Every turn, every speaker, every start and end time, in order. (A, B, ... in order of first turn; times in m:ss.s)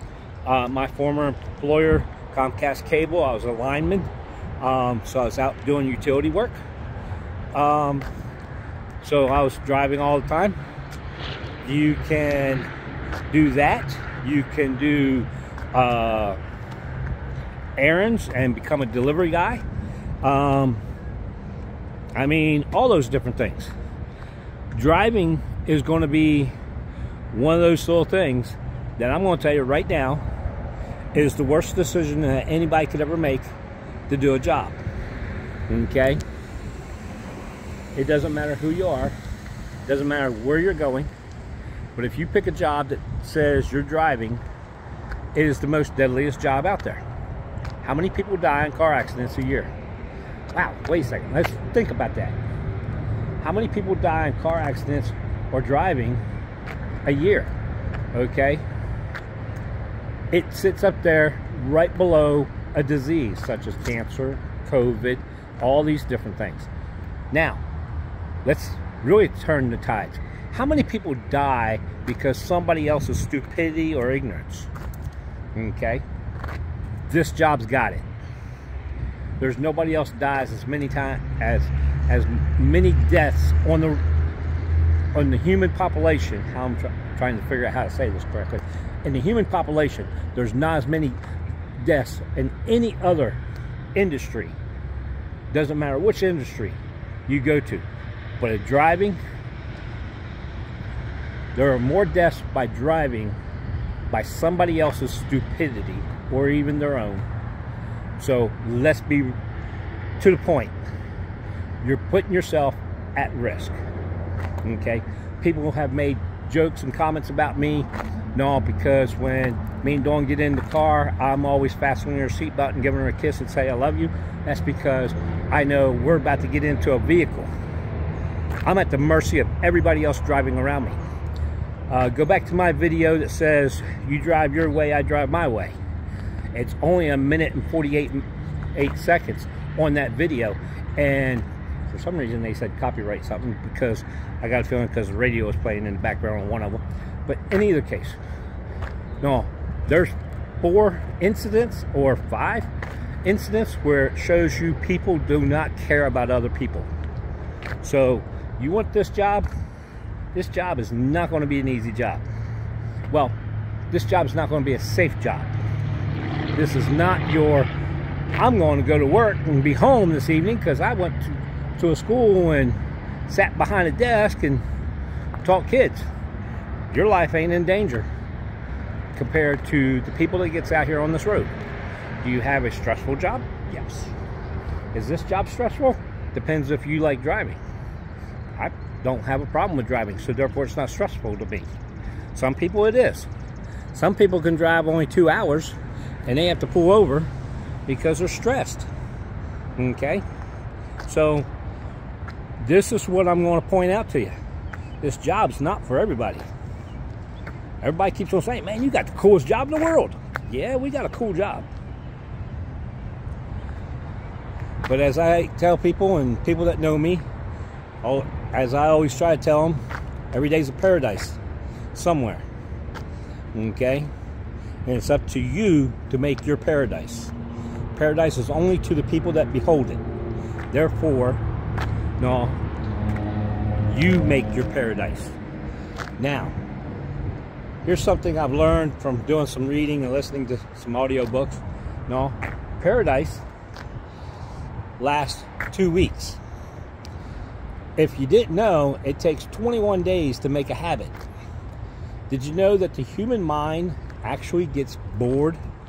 0:00.4-0:06.6 A
0:07.5-0:08.1 A
0:09.0-0:10.6 A
0:11.6-0:12.7 A
0:13.3-0:16.4 A
0:17.8-0:19.6 A
0:20.2-0:20.8 A
0:22.1-0:23.7 A
0:24.7-0:26.5 A
0:27.3-0:30.2 A
0:31.1-0:33.5 A
0:34.1-0:34.8 A
0:35.7-0:36.2 A
0:37.9-0:39.2 A
0:39.8-0:41.1 A
0:41.9-0:44.4 A
0:45.3-0:47.0 A
0:47.8-0:49.7 A
0:50.5-0:52.4 A
0:53.4-0:56.2 A
0:57.0-0:57.5 A
0:58.1-0:58.6 A
1:00.3-1:06.7 A
1:07.3-1:07.6 A
1:08.4-1:14.7 A
1:15.5-1:16.0 A
1:17.1-1:18.0 A
1:19.4-1:24.0 A
1:25.1-1:31.2 A
1:31.8-1:33.4 A
1:33.9-1:34.6 A
1:35.5-1:37.8 A
1:38.4-1:39.2 A
1:41.5-1:43.4 A
1:44.1-1:47.3 A
1:48.2-1:49.4 A
1:50.2-1:50.8 A
1:51.8-1:53.8 A
1:54.6-2:07.5 A
2:08.6-2:11.0 A
2:11.9-2:15.7 A
2:16.5-2:28.2 A
2:29.2-2:32.7 A
2:33.2-2:36.9 A
2:37.8-2:39.5 A
2:40.3-2:42.2 A
2:43.1-2:43.3 A
2:43.9-2:45.5 A
2:46.5-2:47.7 A
2:48.4-2:54.6 A
2:55.4-2:56.1 A
2:56.9-2:58.1 A
2:59.1-3:01.5 A
3:02.2-3:04.1 A
3:04.9-3:07.6 A
3:08.6-3:11.7 A
3:12.3-3:13.3 A
3:13.9-3:17.3 A
3:17.9-3:18.9 A
3:19.8-3:20.2 A
3:21.0-3:21.5 A
3:22.6-3:24.3 A
3:25.0-3:26.4 A
3:27.8-3:31.7 A
3:34.8-3:37.2 A
3:38.0-3:41.4 A
3:41.9-3:42.4 A
3:43.5-3:44.1 A
3:44.8-3:47.3 A
3:47.9-3:50.0 A
3:50.7-3:51.4 A
3:52.2-3:52.6 A
3:53.9-3:55.4 A
3:56.2-3:56.5 A
3:57.8-4:03.4 A
4:05.0-4:06.4 A
4:08.0-4:11.1 A
4:12.3-4:15.6 A